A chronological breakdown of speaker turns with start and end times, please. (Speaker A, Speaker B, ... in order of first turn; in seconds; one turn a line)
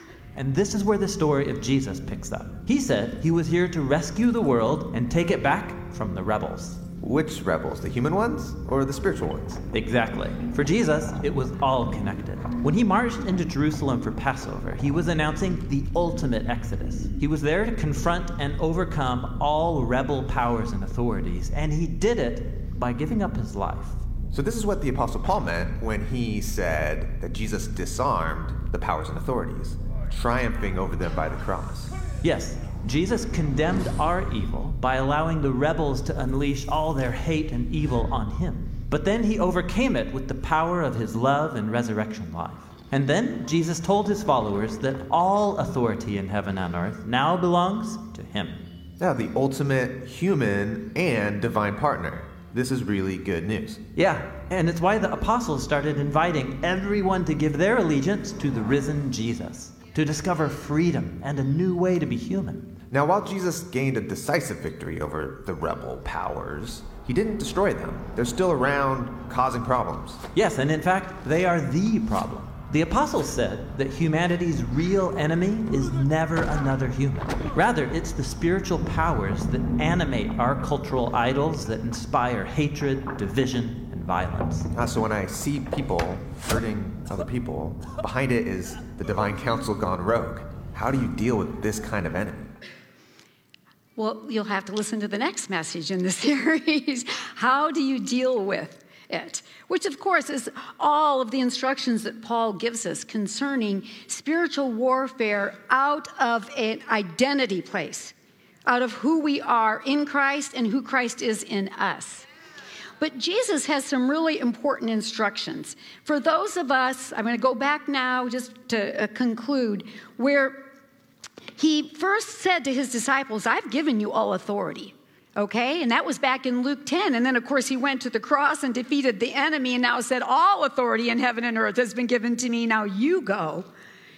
Speaker A: 0.3-6.8
Speaker B: 7.0-9.6
Speaker A: 9.7-24.0
Speaker B: 24.3-31.9
Speaker A: 32.2-48.6
Speaker B: 49.0-53.8
Speaker A: 54.0-62.8
Speaker B: 62.9-70.2
Speaker A: 70.3-84.7
Speaker B: 84.7-92.5
Speaker C: 94.0-108.1
Speaker C: 108.7-112.3
Speaker C: 113.0-120.7
Speaker C: 121.5-133.7